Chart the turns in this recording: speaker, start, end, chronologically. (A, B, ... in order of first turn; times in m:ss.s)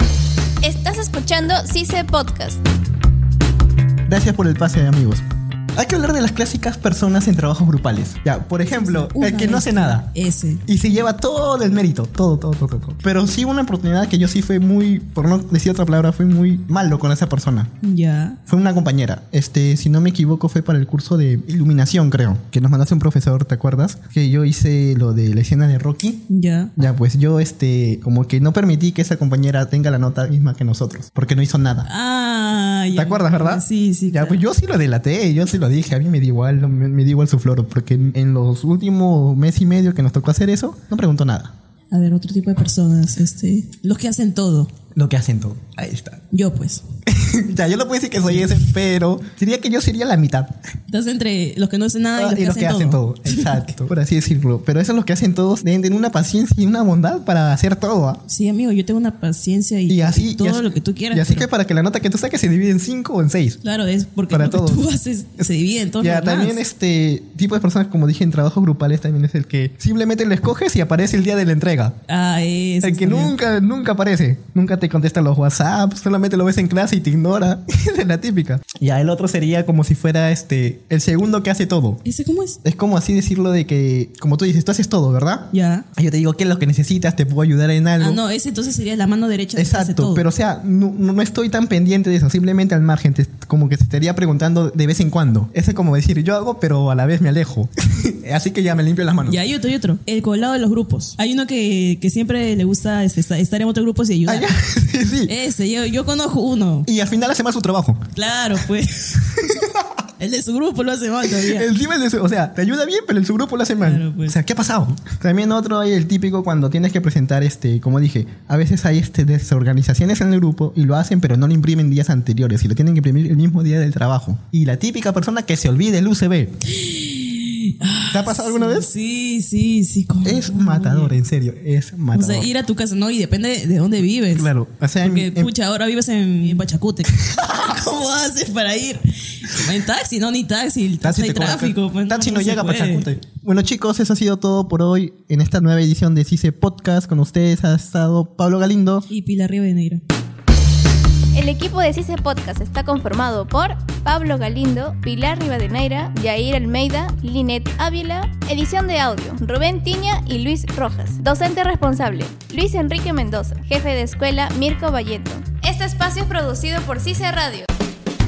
0:00.6-0:02.6 A
0:04.1-0:05.2 B
0:05.8-0:10.1 B
0:08.7-0:10.6 C
0:10.7-0:17.7 B
0:17.8-0:18.4 C
0:18.5-0:26.2 B
0:26.3-0:26.7 C
0:26.8-0:31.9 B
0:31.9-0:34.4 C
0:32.9-0:41.5 B
0:41.9-0:44.7 C
0:44.9-0:46.2 B
0:46.3-0:46.8 C
0:47.1-0:50.6 B
0:50.9-0:53.7 C
0:52.2-0:58.2 B
0:58.3-1:01.5 C
0:59.9-1:03.6 B
1:03.6-1:06.6 C
1:04.3-1:04.8 B
1:06.0-1:12.0 B
1:12.1-1:13.3 C
1:12.8-1:22.0 B
1:22.0-1:22.6 C
1:22.6-1:28.2 B
1:25.5-1:25.9 C
1:28.0-1:30.2 C
1:29.6-1:39.4 B
1:39.3-1:44.5 C
1:44.2-1:45.3 B
1:45.3-1:46.9 C
1:46.9-1:48.1 B
1:48.1-1:49.3 C
1:49.3-1:49.9 B
1:50.2-1:51.7 C
1:51.2-2:06.5 B
1:53.8-1:54.4 C
2:06.7-2:11.2 C
2:08.1-2:08.9 B
2:10.2-2:12.5 B
2:12.1-2:14.5 C
2:14.3-2:15.5 B
2:15.0-2:23.1 C
2:17.2-2:17.5 B
2:21.0-2:29.1 B
2:29.1-2:30.0 C
2:31.3-2:47.7 A